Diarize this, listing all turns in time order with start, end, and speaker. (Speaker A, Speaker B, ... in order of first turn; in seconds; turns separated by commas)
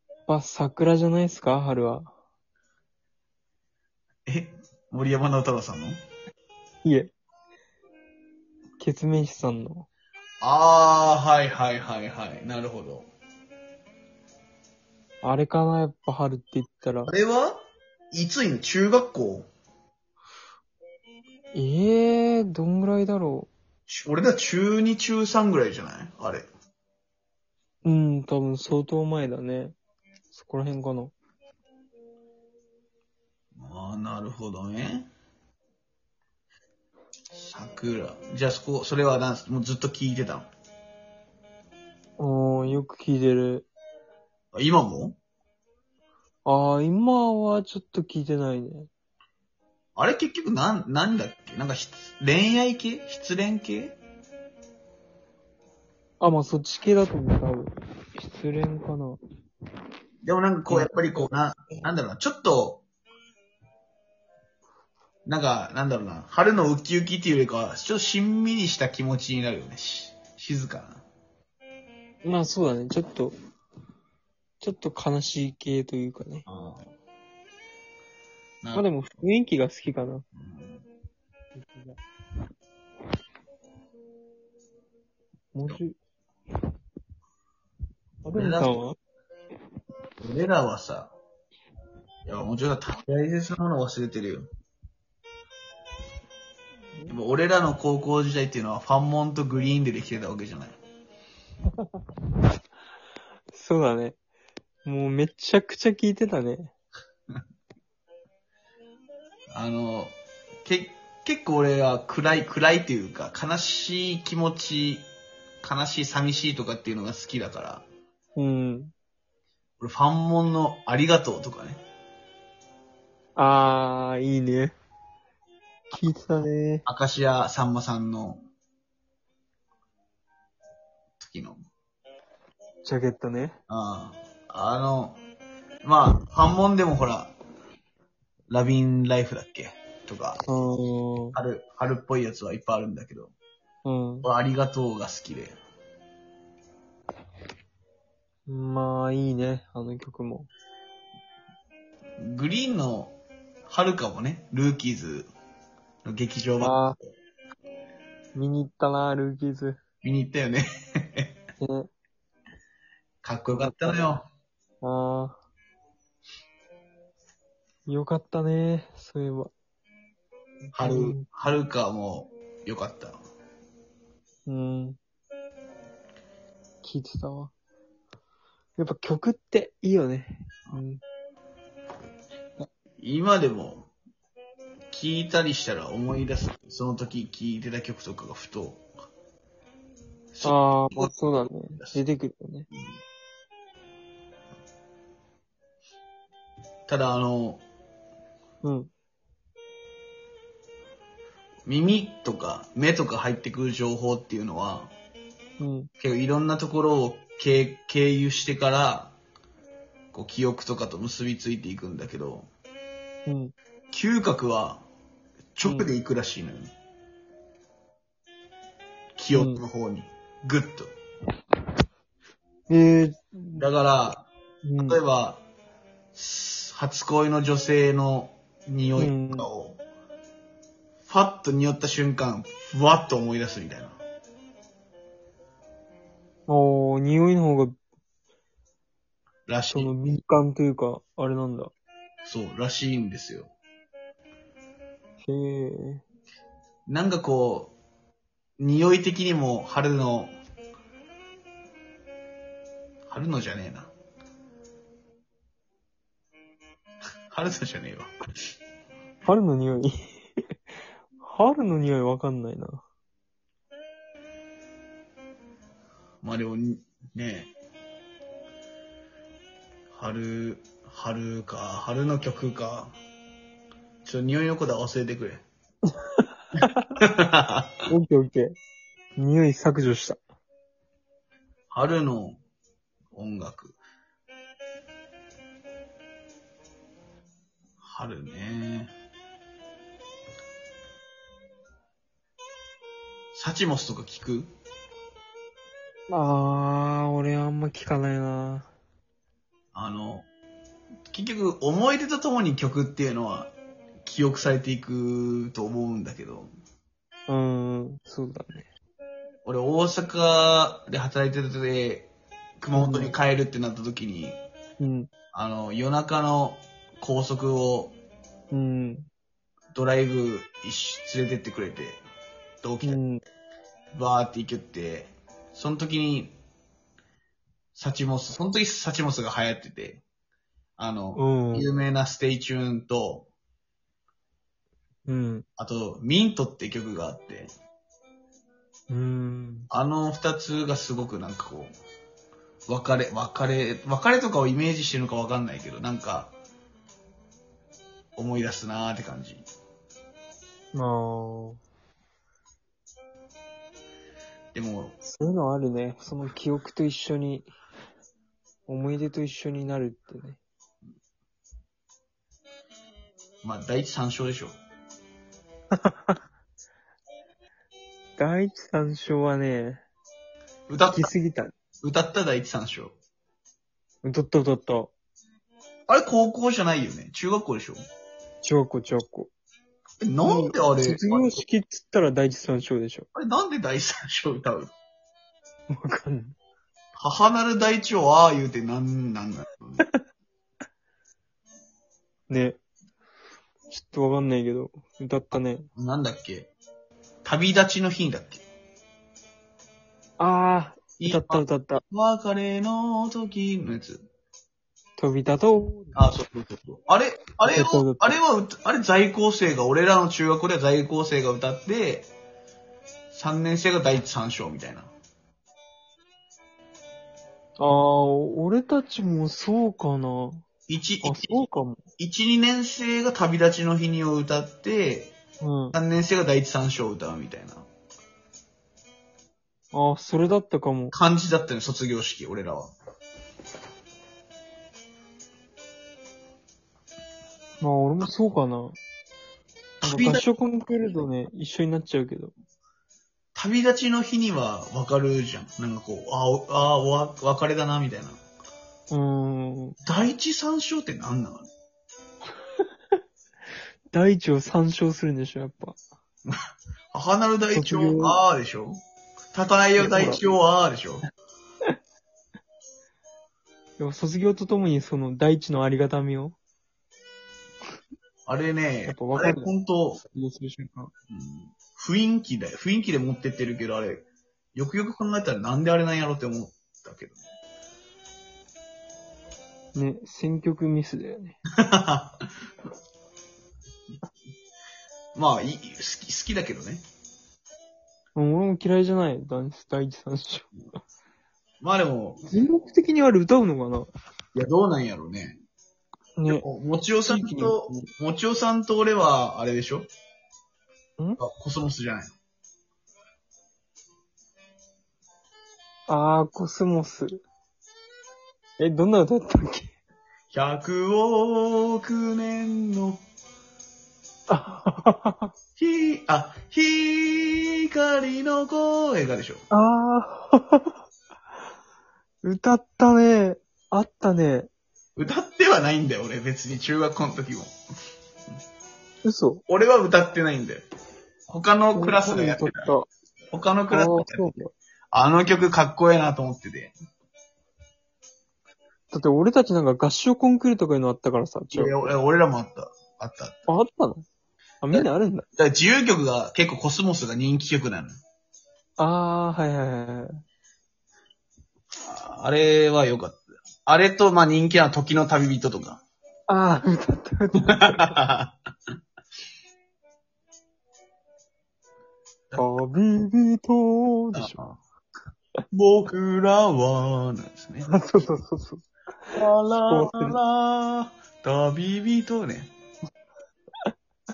Speaker A: 0.3-2.1, Speaker B: 4.3-6.0, Speaker A: 6.8-7.1, Speaker A: 8.8-9.9, Speaker B: 10.4-13.1, Speaker A: 15.2-17.1, Speaker B: 17.1-17.6, Speaker B: 18.1-19.5, Speaker A: 21.5-23.5, Speaker B: 23.9-26.4, Speaker A: 27.8-29.7, Speaker A: 30.3-31.1, Speaker B: 33.5-35.1, Speaker B: 37.3-40.5, Speaker A: 42.2-43.7, Speaker B: 44.5-45.2, Speaker A: 46.5-48.9, Speaker B: 50.0-54.0, Speaker A: 56.2-59.2, Speaker B: 60.2-62.8, Speaker A: 60.7-61.2, Speaker B: 65.2-71.0, Speaker A: 72.2-73.3, Speaker A: 74.6-76.5, Speaker B: 76.5-76.8, Speaker B: 78.6-78.9, Speaker A: 78.7-80.2, Speaker B: 80.3-80.8, Speaker A: 81.6-82.0, Speaker A: 85.5-85.9, Speaker A: 88.2-88.9, Speaker B: 88.3-88.8, Speaker B: 90.2-91.1, Speaker B: 92.2-94.5, Speaker B: 97.1-100.8, Speaker A: 103.5-104.2, Speaker A: 104.8-106.7, Speaker B: 109.5-110.1, Speaker B: 110.6-115.1, Speaker B: 115.6-117.8, Speaker A: 118.3-118.9, Speaker B: 119.8-121.8, Speaker A: 123.3-124.7, Speaker A: 125.9-126.8, Speaker B: 126.8-128.4, Speaker B: 131.2-131.6, Speaker A: 132.8-133.6, Speaker B: 133.7-135.2, Speaker B: 135.8-137.3, Speaker B: 138.5-140.4, Speaker A: 140.4-141.4, Speaker B: 141.3-143.3, Speaker A: 143.8-144.3, Speaker B: 144.2-145.6, Speaker A: 148.5-150.5, Speaker B: 152.2-153.1, Speaker B: 153.7-155.3, Speaker B: 156.0-157.1, Speaker A: 156.6-156.9, Speaker A: 158.3-159.8, Speaker B: 160.0-161.4, Speaker A: 161.6-161.9, Speaker B: 163.2-164.2, Speaker A: 163.6-163.9, Speaker A: 164.8-165.4, Speaker A: 167.8-169.5, Speaker A: 170.7-171.2, Speaker B: 170.7-173.2, Speaker A: 174.5-175.0, Speaker A: 176.8-177.5, Speaker A: 178.8-181.0, Speaker B: 183.0-183.9, Speaker B: 184.9-188.8, Speaker B: 190.3-192.0, Speaker A: 190.4-192.7, Speaker B: 196.9-197.6, Speaker A: 198.6-198.9, Speaker B: 201.7-204.9, Speaker A: 205.6-205.9, Speaker B: 206.0-209.1, Speaker B: 210.1-212.5, Speaker A: 213.2-213.5, Speaker B: 213.9-214.8, Speaker B: 215.6-216.7, Speaker A: 215.6-215.9, Speaker B: 219.2-220.9, Speaker A: 219.3-219.6, Speaker A: 222.7-223.7, Speaker B: 223.6-225.4, Speaker A: 224.6-225.0, Speaker B: 226.1-229.8, Speaker A: 229.0-229.5, Speaker B: 231.1-234.0, Speaker A: 236.5-237.7, Speaker B: 239.5-239.9, Speaker A: 239.7-241.7, Speaker B: 242.2-243.5, Speaker A: 245.2-246.0, Speaker B: 246.9-247.7, Speaker B: 248.6-250.3, Speaker B: 253.1-253.9, Speaker B: 257.3-258.1, Speaker A: 259.2-259.9, Speaker A: 261.2-262.8, Speaker B: 266.2-267.5, Speaker B: 269.9-272.9, Speaker B: 274.0-275.4, Speaker A: 276.1-276.9, Speaker B: 277.0-277.7, Speaker A: 277.9-278.5, Speaker A: 279.2-280.2, Speaker B: 281.7-282.4, Speaker B: 283.1-283.8, Speaker B: 287.8-288.9, Speaker B: 293.3-294.5, Speaker A: 296.1-298.7, Speaker B: 299.7-300.3, Speaker B: 301.1-303.5, Speaker B: 304.0-306.5, Speaker A: 307.3-308.7, Speaker B: 309.4-314.4, Speaker A: 312.7-313.1, Speaker A: 314.8-315.1, Speaker B: 315.3-317.9, Speaker A: 318.5-319.1, Speaker B: 319.7-322.0, Speaker B: 322.6-323.0, Speaker A: 322.8-323.2, Speaker B: 323.9-326.3, Speaker B: 327.8-330.0, Speaker B: 330.8-333.3, Speaker A: 331.1-331.7, Speaker A: 335.1-335.4, Speaker B: 335.6-337.5, Speaker A: 338.9-339.7, Speaker B: 339.7-341.7, Speaker B: 342.7-346.3, Speaker B: 348.2-349.4, Speaker A: 350.7-351.6, Speaker B: 354.5-354.9, Speaker A: 355.0-357.5, Speaker A: 358.7-360.4, Speaker B: 363.4-364.5, Speaker A: 365.8-366.2, Speaker A: 368.2-369.8, Speaker B: 370.7-371.1, Speaker A: 370.9-371.5, Speaker B: 371.8-372.9, Speaker A: 374.0-374.9, Speaker B: 375.9-377.8, Speaker A: 378.4-379.3, Speaker B: 380.0-381.4, Speaker A: 380.2-383.1, Speaker B: 383.1-384.7, Speaker A: 385.7-386.3, Speaker B: 387.0-389.8, Speaker A: 392.3-392.6, Speaker A: 393.7-395.6, Speaker B: 395.8-396.5, Speaker B: 397.2-398.4, Speaker A: 400.2-401.8, Speaker B: 401.0-404.0, Speaker A: 405.0-406.1, Speaker B: 405.9-412.1, Speaker A: 407.4-408.2, Speaker B: 413.1-414.9, Speaker A: 417.6-420.4, Speaker B: 420.7-421.4, Speaker A: 421.0-421.8, Speaker B: 422.0-425.1, Speaker A: 425.4-425.8, Speaker B: 425.7-427.6, Speaker A: 429.7-430.9, Speaker B: 430.9-432.7, Speaker A: 437.6-438.8, Speaker B: 439.8-440.2, Speaker A: 439.8-442.3, Speaker B: 443.3-448.2, Speaker A: 448.9-449.8, Speaker B: 449.8-451.4, Speaker A: 453.9-455.8, Speaker B: 456.9-458.8, Speaker A: 457.5-458.2, Speaker B: 459.3-461.0, Speaker A: 459.8-460.2, Speaker A: 463.8-466.4, Speaker B: 468.3-470.0, Speaker A: 468.9-470.9, Speaker B: 471.1-477.2, Speaker A: 479.7-481.4, Speaker B: 481.5-482.2, Speaker B: 485.1-486.8, Speaker A: 488.1-490.5, Speaker B: 491.6-492.2, Speaker A: 492.3-493.9, Speaker B: 494.3-495.4, Speaker A: 496.2-496.4, Speaker B: 496.3-499.9, Speaker A: 497.1-497.9, Speaker B: 501.2-502.1, Speaker A: 505.9-507.2, Speaker A: 508.6-509.7, Speaker B: 510.3-513.0, Speaker A: 514.3-515.3, Speaker B: 515.5-519.4, Speaker A: 519.5-520.8, Speaker A: 522.2-524.5, Speaker B: 525.0-527.5, Speaker A: 529.0-529.4, Speaker B: 529.5-530.6, Speaker B: 531.3-532.7, Speaker A: 531.7-532.9, Speaker B: 533.3-536.7, Speaker A: 533.7-534.5, Speaker A: 538.9-541.8, Speaker B: 541.5-543.4, Speaker A: 543.5-544.0, Speaker A: 544.6-545.2, Speaker B: 544.7-548.0, Speaker A: 548.8-550.1, Speaker B: 551.8-555.8, Speaker A: 556.3-557.9, Speaker B: 557.4-558.3, Speaker A: 562.4-564.3, Speaker B: 564.1-564.6, Speaker B: 565.5-567.7, Speaker A: 567.7-570.2, Speaker B: 569.1-572.5